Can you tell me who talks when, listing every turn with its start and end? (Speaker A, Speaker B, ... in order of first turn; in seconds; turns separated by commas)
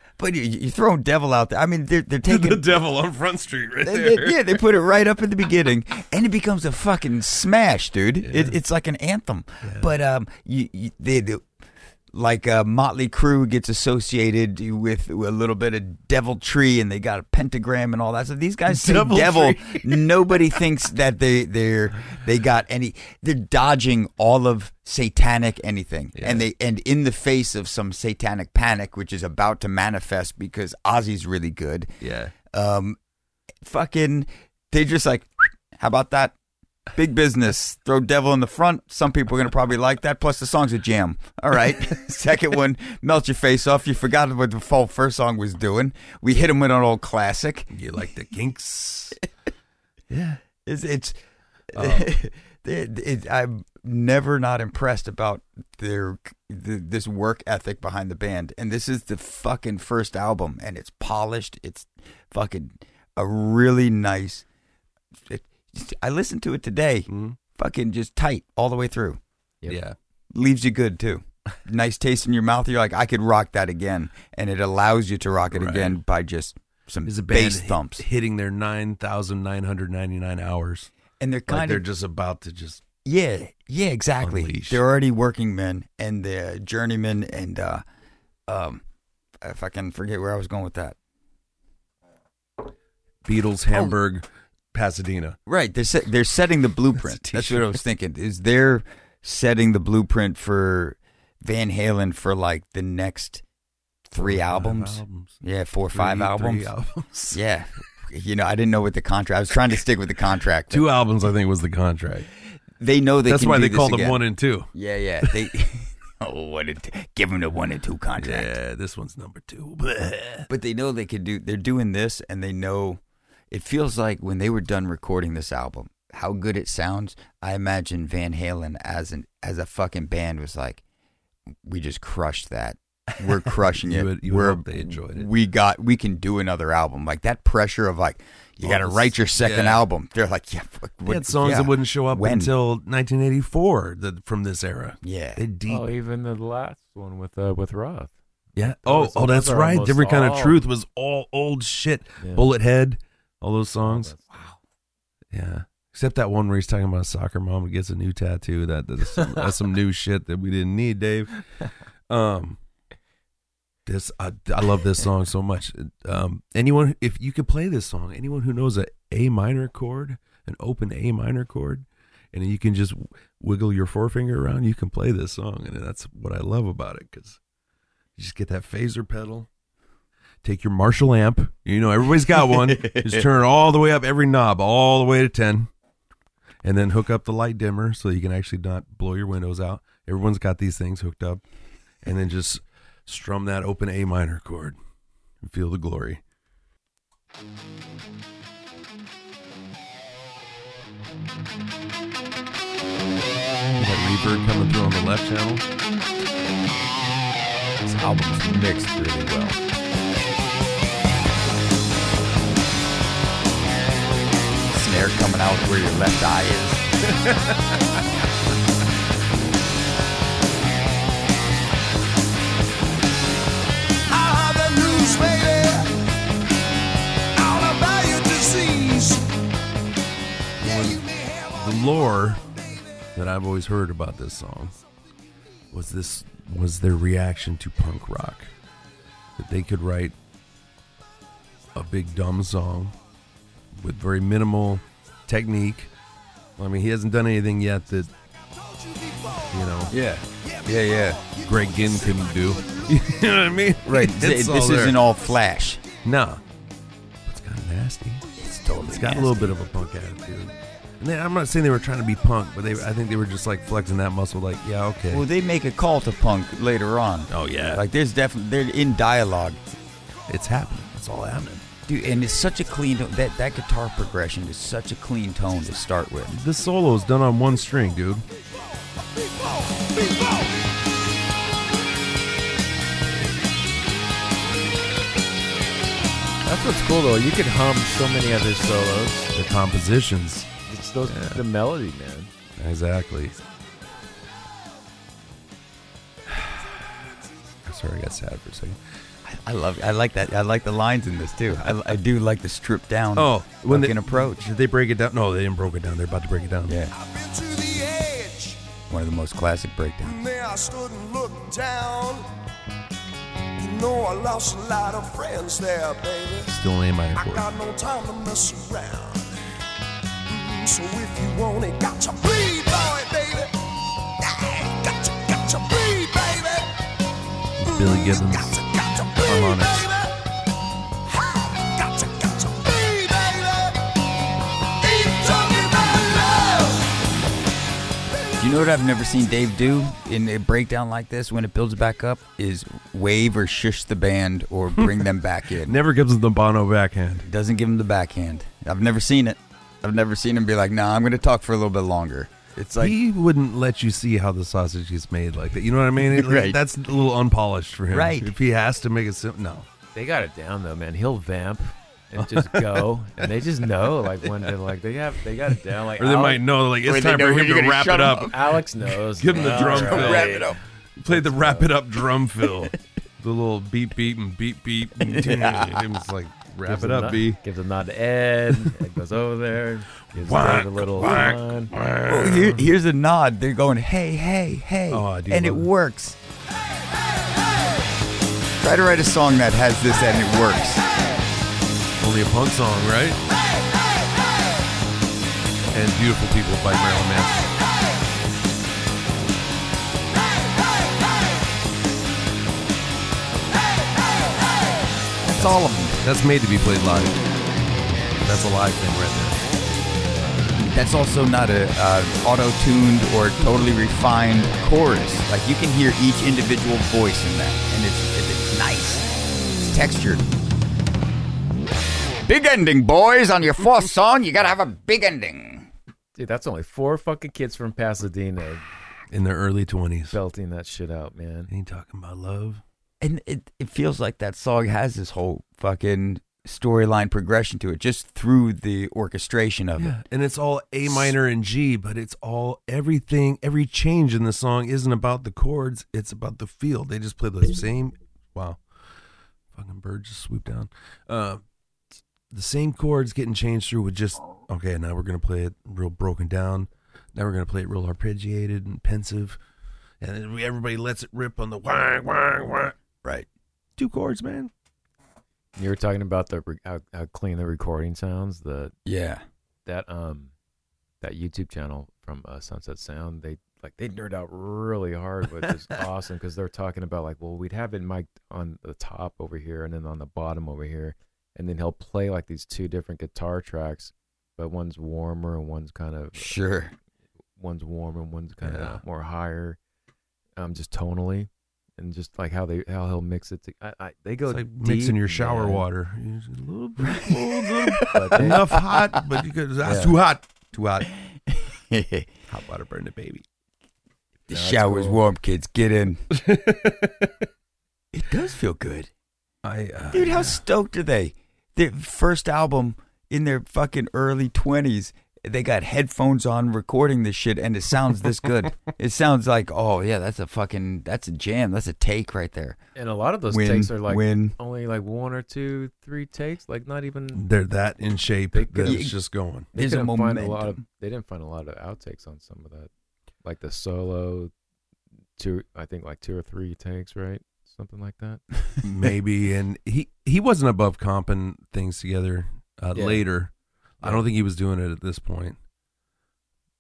Speaker A: 0.2-2.8, Speaker B: 2.2-4.6, Speaker A: 3.8-11.4, Speaker B: 8.2-8.6, Speaker B: 9.6-9.9, Speaker A: 12.1-31.9, Speaker B: 18.7-20.1, Speaker B: 26.1-26.5, Speaker B: 32.0-32.3, Speaker A: 32.5-33.0, Speaker A: 33.6-36.3, Speaker A: 36.9-47.7, Speaker B: 47.7-49.2, Speaker B: 50.1-50.4, Speaker A: 50.6-51.2, Speaker A: 51.7-64.4, Speaker B: 51.7-52.1, Speaker A: 65.3-69.2, Speaker B: 67.1-67.4, Speaker B: 69.7-70.0, Speaker A: 70.3-78.0, Speaker B: 75.5-76.0, Speaker B: 77.0-80.9, Speaker A: 81.2-81.8, Speaker B: 81.5-82.8, Speaker A: 83.0-87.8, Speaker B: 84.2-84.8, Speaker A: 88.5-88.8, Speaker A: 89.4-91.0, Speaker B: 93.2-95.4, Speaker A: 95.5-103.4, Speaker B: 97.0-97.8, Speaker A: 104.1-106.7, Speaker B: 104.1-105.4, Speaker B: 105.9-107.4, Speaker A: 107.3-110.9, Speaker B: 110.7-112.3, Speaker A: 112.8-114.2, Speaker B: 113.2-114.7, Speaker A: 114.7-118.5, Speaker B: 115.2-115.5, Speaker B: 118.2-120.5, Speaker A: 120.5-130.8, Speaker A: 131.6-142.5, Speaker B: 133.2-135.3, Speaker B: 138.6-139.8, Speaker B: 141.0-145.9, Speaker A: 145.0-145.4, Speaker C: 145.7-148.1, Speaker B: 148.6-154.1, Speaker C: 148.7-150.6, Speaker C: 152.2-152.5, Speaker C: 153.8-154.5, Speaker B: 155.3-161.4, Speaker B: 162.1-162.6, Speaker B: 163.8-177.4, Speaker B: 178.2-179.5, Speaker B: 180.4-185.7, Speaker A: 182.7-183.2, Speaker B: 186.6-191.4, Speaker B: 192.0-194.8, Speaker B: 195.4-196.2, Speaker B: 203.8-205.7, Speaker A: 207.8-209.6, Speaker A: 214.7-216.8, Speaker B: 217.1-217.6, Speaker D: 224.1-226.0, Speaker D: 227.3-229.3, Speaker B: 230.6-232.4, Speaker D: 230.7-231.6, Speaker B: 233.1-234.8, Speaker B: 235.7-238.5, Speaker B: 239.4-240.1, Speaker B: 241.7-242.9, Speaker B: 243.7-245.9, Speaker B: 246.6-248.1, Speaker D: 248.7-249.5, Speaker B: 249.5-249.9, Speaker A: 249.9-251.2, Speaker D: 250.6-253.0, Speaker B: 251.4-255.0, Speaker A: 253.8-255.8, Speaker B: 256.0-256.4, Speaker B: 257.2-258.2, Speaker A: 258.4-259.5, Speaker B: 258.8-265.2, Speaker A: 265.1-269.6, Speaker B: 267.3-267.8, Speaker B: 270.3-271.6, Speaker A: 271.9-276.4, Speaker B: 276.3-278.2, Speaker C: 286.4-289.3, Speaker B: 289.3-290.5, Speaker C: 290.7-292.3, Speaker B: 291.0-291.4, Speaker B: 292.6-293.4, Speaker B: 296.3-296.6, Speaker B: 297.6-298.8, Speaker A: 299.2-304.4, Speaker B: 301.6-301.9, Speaker B: 303.1-306.8, Speaker A: 306.7-306.9, Speaker D: 306.9-308.7, Speaker A: 308.9-310.2, Speaker D: 310.0-312.3, Speaker D: 313.6-316.5, Speaker B: 316.5-317.5, Speaker D: 317.1-319.4, Speaker D: 320.3-323.6, Speaker D: 324.2-326.8, Speaker B: 327.6-328.6, Speaker D: 327.7-330.1, Speaker B: 329.2-329.9, Speaker D: 331.1-333.9, Speaker D: 334.8-337.0, Speaker A: 338.4-345.8, Speaker B: 344.8-345.1, Speaker B: 345.6-347.3, Speaker A: 347.2-352.9, Speaker B: 352.8-359.7, Speaker A: 356.1-356.6, Speaker A: 357.9-358.3, Speaker C: 359.9-366.4, Speaker B: 362.1-363.3, Speaker B: 364.2-364.5, Speaker B: 365.9-368.4, Speaker A: 366.8-368.4, Speaker C: 368.2-370.5, Speaker B: 369.1-370.4, Speaker A: 369.3-370.6, Speaker B: 371.0-377.4, Speaker C: 371.1-371.7, Speaker A: 375.0-375.9, Speaker C: 376.6-381.7, Speaker B: 380.1-382.7, Speaker A: 381.0-381.3, Speaker A: 382.1-386.2, Speaker B: 384.9-385.7, Speaker A: 388.6-390.8, Speaker B: 392.0-393.2, Speaker B: 395.7-397.6, Speaker A: 405.2-406.0, Speaker B: 405.3-407.2, Speaker B: 408.2-409.4, Speaker A: 410.6-419.1, Speaker A: 419.6-420.2, Speaker A: 422.2-425.7, Speaker C: 426.1-428.6, Speaker B: 429.1-430.2, Speaker C: 430.1-431.5, Speaker B: 431.5-432.6, Speaker A: 433.0-440.0, Speaker B: 439.8-448.6, Speaker B: 449.5-451.4, Speaker B: 452.3-459.4, Speaker B: 460.0-462.7, Speaker B: 463.8-464.5, Speaker C: 465.6-468.7, Speaker A: 468.9-469.2, Speaker C: 469.6-470.3, Speaker C: 471.0-486.4, Speaker A: 486.2-486.7, Speaker C: 487.4-489.6, Speaker B: 488.4-488.8, Speaker C: 490.4-495.6, Speaker B: 494.3-500.9, Speaker A: 496.9-499.0, Speaker C: 497.8-498.5, Speaker C: 499.6-499.9, Speaker A: 501.3-502.1, Speaker B: 502.3-503.2, Speaker A: 504.3-506.1, Speaker C: 504.3-505.0, Speaker B: 506.1-507.2, Speaker A: 507.9-508.9, Speaker B: 509.4-510.4, Speaker A: 509.9-522.6, Speaker C: 522.7-527.2, Speaker A: 523.3-524.4, Speaker B: 527.1-529.5, Speaker C: 528.3-528.8, Speaker A: 528.6-528.9, Speaker A: 529.5-530.6, Speaker C: 529.5-532.7, Speaker C: 533.2-534.3, Speaker C: 535.2-538.3, Speaker B: 538.6-545.4, Speaker C: 542.7-543.0